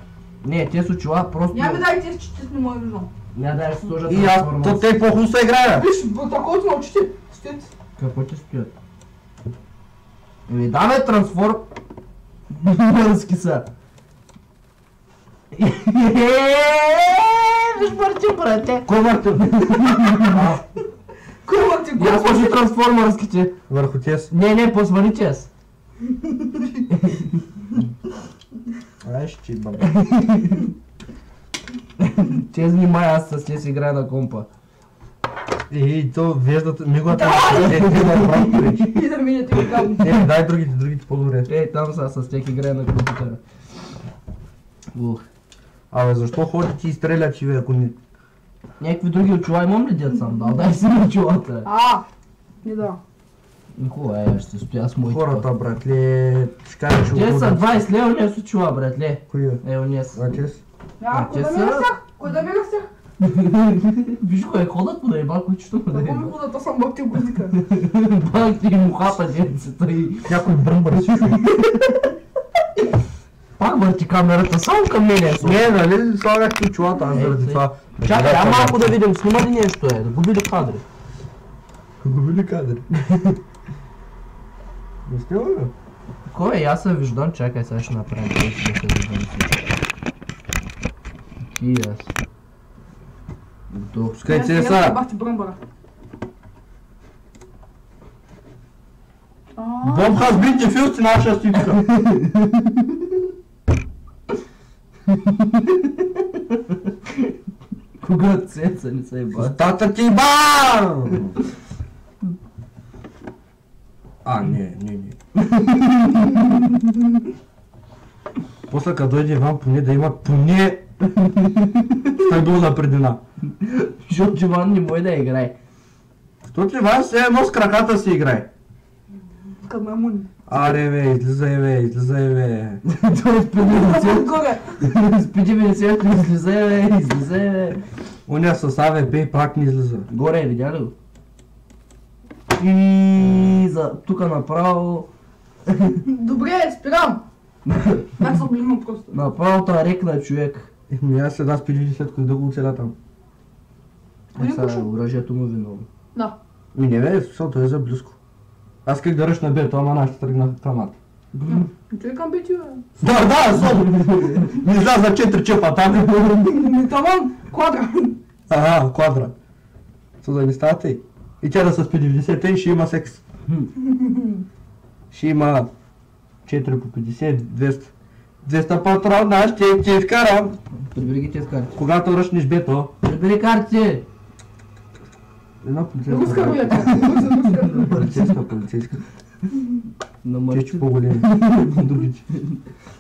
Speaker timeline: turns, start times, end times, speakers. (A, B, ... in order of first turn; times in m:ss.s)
0:00.4-0:01.9 A
0:01.5-0:03.1 B
0:03.3-0:04.9 A
0:04.1-0:05.9 C
0:05.7-0:07.7 B
0:08.0-0:08.7 A
0:10.5-0:11.7 A
0:12.5-0:13.7 A
0:15.5-0:20.4 A
0:18.8-0:20.6 C
0:21.4-0:22.6 B
0:22.0-0:23.6 A
0:23.7-0:24.3 C
0:24.3-0:25.5 A
0:26.9-0:27.4 A
0:29.0-0:29.9 C
0:29.8-0:30.7 A
0:32.0-0:34.5 A
0:35.7-0:38.9 C
0:37.1-0:40.1 B
0:37.7-0:38.4 A
0:40.0-0:41.5 C
0:41.5-0:43.4 A
0:44.9-0:45.2 A
0:45.9-0:48.0 C
0:48.8-0:51.7 A
0:51.6-0:52.0 B
0:52.6-0:53.0 B
0:53.8-0:55.5 A
0:55.0-0:57.8 C
0:57.1-1:00.2 A
0:59.3-1:00.6 C
1:01.0-1:02.9 B
1:01.1-1:01.9 A
1:03.2-1:06.3 A
1:05.9-1:07.6 B
1:07.5-1:10.4 A
1:10.3-1:11.4 C
1:11.5-1:11.9 A
1:13.6-1:15.7 A
1:15.3-1:19.0 C
1:17.1-1:20.8 A
1:22.0-1:22.8 C
1:23.1-1:23.4 A
1:25.1-1:25.7 C
1:26.3-1:29.8 A
1:31.4-1:32.1 A
1:33.7-1:34.2 A
1:34.2-1:35.0 C
1:34.3-1:35.6 B
1:39.6-1:40.4 B
1:39.8-1:41.8 C
1:41.8-1:43.0 A
1:45.1-1:47.3 A
1:48.0-1:49.6 A
1:49.3-1:51.4 C
1:54.2-1:55.2 C
1:55.4-1:56.7 A
1:58.7-2:00.8 C
2:01.2-2:02.2 A
2:02.2-2:03.2 C
2:03.6-2:05.6 A
2:06.5-2:08.5 C
2:09.6-2:10.3 B
2:10.5-2:12.8 C
2:12.8-2:17.8 A
2:13.6-2:14.7 B
2:18.3-2:20.1 C
2:20.1-2:20.9 A
2:22.6-2:25.1 A
2:25.7-2:26.0 A
2:26.0-2:27.2 B
2:27.7-2:28.2 A
2:28.2-2:29.2 B
2:29.1-2:30.7 A
2:30.9-2:32.9 C
2:34.4-2:34.8 B
2:34.4-2:35.9 A
2:36.7-2:38.2 C
2:38.8-2:41.0 C
2:41.3-2:41.7 A
2:41.5-2:42.8 B
2:43.0-2:46.6 C
2:43.6-2:44.6 A
2:46.5-2:48.2 B
2:48.5-2:49.3 C
2:50.2-2:53.2 C
2:53.8-2:54.4 B
2:55.1-2:55.7 C
2:56.5-2:57.9 C
2:58.4-3:00.6 C
3:00.9-3:01.8 A
3:01.8-3:02.9 C
3:03.0-3:04.0 A
3:05.6-3:07.1 C
3:06.1-3:08.2 B
3:07.6-3:08.3 A
3:07.7-3:09.0 C
3:10.2-3:12.6 A
3:10.5-3:12.2 C